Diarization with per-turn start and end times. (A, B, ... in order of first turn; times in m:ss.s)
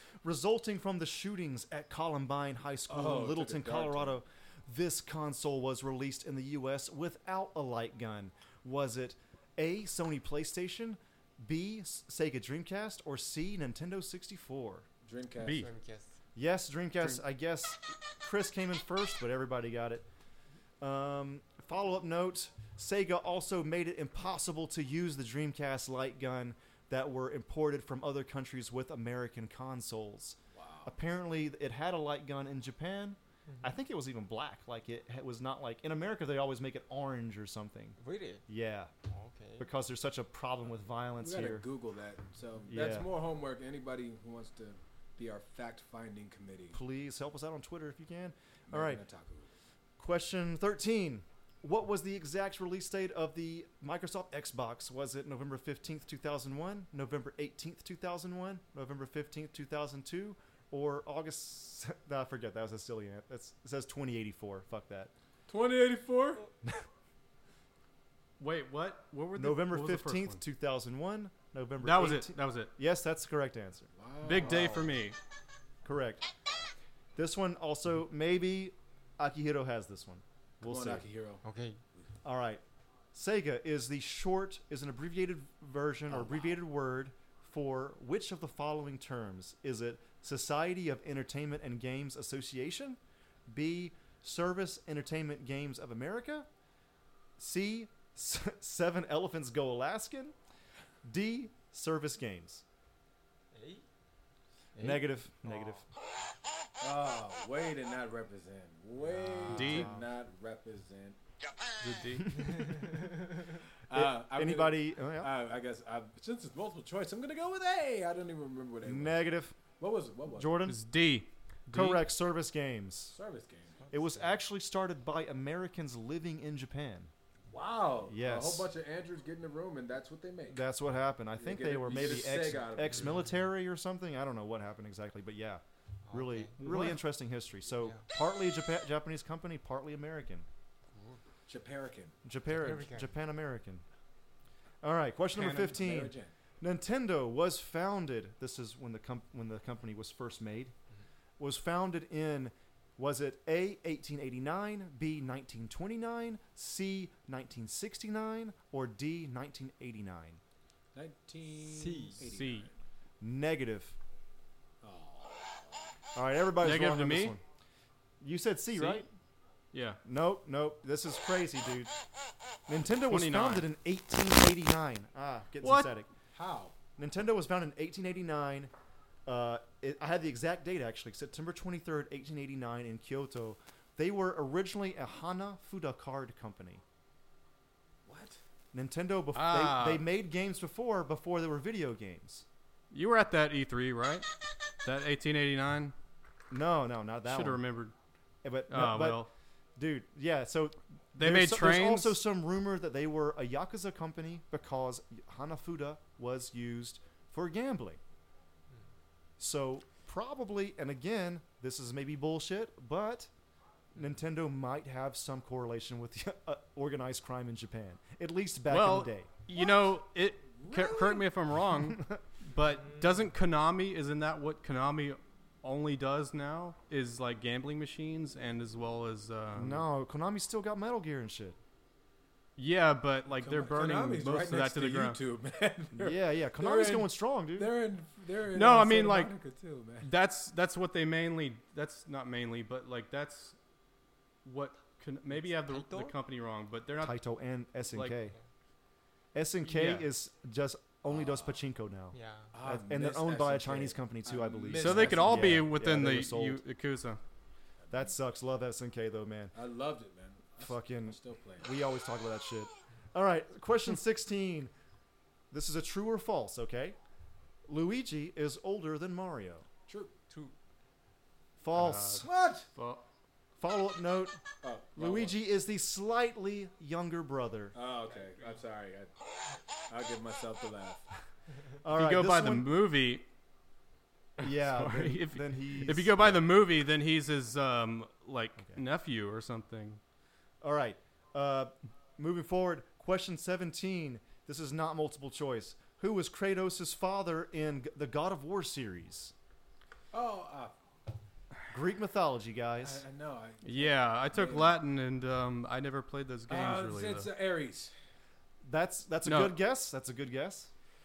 0:00.2-0:14.8 A
0:02.9-0:04.2 B
0:15.0-0:15.7 B
0:15.4-0:15.7 C
0:15.5-0:16.2 D
0:16.4-0:20.0 A
0:20.8-0:38.0 A
0:30.5-0:30.9 B
0:38.0-0:38.4 D
0:38.5-0:38.9 A
0:39.0-0:39.7 D
0:39.6-0:41.6 A
0:41.2-0:46.8 B
0:42.7-0:43.1 A
0:46.7-0:49.0 A
0:48.7-0:49.5 B
0:50.0-1:05.1 A
1:05.5-1:06.5 B
1:08.4-1:10.4 C
1:09.3-1:13.9 A
1:11.8-1:12.7 C
1:14.0-1:15.0 B
1:14.2-1:15.2 C
1:15.8-1:16.2 A
1:17.2-1:21.0 A
1:20.6-1:21.4 B
1:21.4-1:21.8 D
1:22.2-1:22.6 A
1:23.1-1:36.5 A
1:26.1-1:26.5 B
1:37.4-1:40.3 A
1:41.0-1:42.6 A
1:43.5-1:43.8 D
1:44.8-1:45.1 D
1:44.8-1:45.8 A
1:46.8-1:51.2 B
1:49.0-1:50.0 A
1:49.5-1:49.9 C
1:51.8-1:52.7 C
1:53.9-1:59.2 B
1:53.9-1:55.3 A
1:58.8-1:59.6 A
1:59.8-2:00.6 B
2:00.3-2:00.8 A
2:00.6-2:02.0 C
2:01.7-2:03.2 A
2:03.1-2:03.8 B
2:03.9-2:04.2 D
2:03.9-2:07.1 A
2:07.5-2:10.6 B
2:08.1-2:08.7 A
2:10.5-2:20.4 A
2:11.4-2:13.3 B
2:16.1-2:16.6 D
2:16.6-2:17.0 C
2:21.5-2:22.1 B
2:22.2-2:23.8 A
2:22.5-2:23.1 D
2:24.8-2:30.7 A
2:25.4-2:25.7 C
2:25.4-2:26.3 B
2:31.4-2:40.4 A
2:40.9-2:42.7 B
2:41.6-2:42.2 D
2:42.2-2:42.7 C
2:43.2-2:44.0 A
2:44.8-2:45.9 B
2:46.1-2:47.4 A
2:46.6-2:47.4 C
2:48.2-2:49.1 A
2:48.7-2:49.1 C
2:49.7-2:50.0 C
2:50.0-2:51.9 A
2:52.7-2:56.1 A
2:53.1-2:53.6 C
2:55.6-2:55.9 C
2:56.3-2:56.7 B
2:57.0-2:58.7 A
2:59.2-3:06.8 A
3:08.0-3:08.4 B
3:08.7-3:12.4 A
3:09.3-3:10.0 C
3:12.9-3:14.3 C
3:14.8-3:15.9 C
3:16.5-3:17.6 A
3:17.3-3:17.9 C
3:18.4-3:28.0 A
3:18.7-3:19.3 C
3:21.2-3:22.2 C
3:29.4-3:33.3 A
3:33.9-3:39.3 A
3:38.7-3:49.8 C
3:39.5-3:39.9 B
3:40.6-3:41.2 B
3:49.5-3:51.6 A
3:52.6-3:55.2 C
3:53.4-4:00.1 B
3:55.9-3:57.7 A
3:58.5-3:59.3 C
4:00.0-4:03.6 C
4:04.4-4:07.2 C
4:05.7-4:06.1 D
4:07.0-4:08.4 A
4:07.9-4:08.2 C
4:09.3-4:16.6 A
4:09.6-4:10.1 C
4:11.1-4:11.6 B
4:12.1-4:12.5 D
4:12.5-4:15.7 B
4:14.7-4:17.2 C
4:17.9-4:19.5 A
4:19.5-4:21.7 B
4:20.6-4:24.7 A
4:25.5-4:27.0 A
4:27.7-4:29.6 A
4:29.9-4:30.1 B
4:31.6-4:32.2 A
4:31.7-4:33.0 C
4:32.1-4:32.7 B
4:33.6-4:34.4 A
4:34.6-4:35.4 B
4:34.9-4:37.7 A
4:37.7-4:39.1 B
4:39.9-4:41.0 B
4:41.8-4:42.7 A
4:41.9-4:43.2 C
4:44.4-4:50.0 C
4:44.4-4:46.5 A
4:50.6-4:59.3 A
5:00.1-5:00.7 B
5:01.7-5:03.0 A
5:02.8-5:04.8 B
5:03.6-5:07.3 C
5:06.5-5:07.9 B
5:08.6-5:10.7 A
5:09.2-5:09.6 C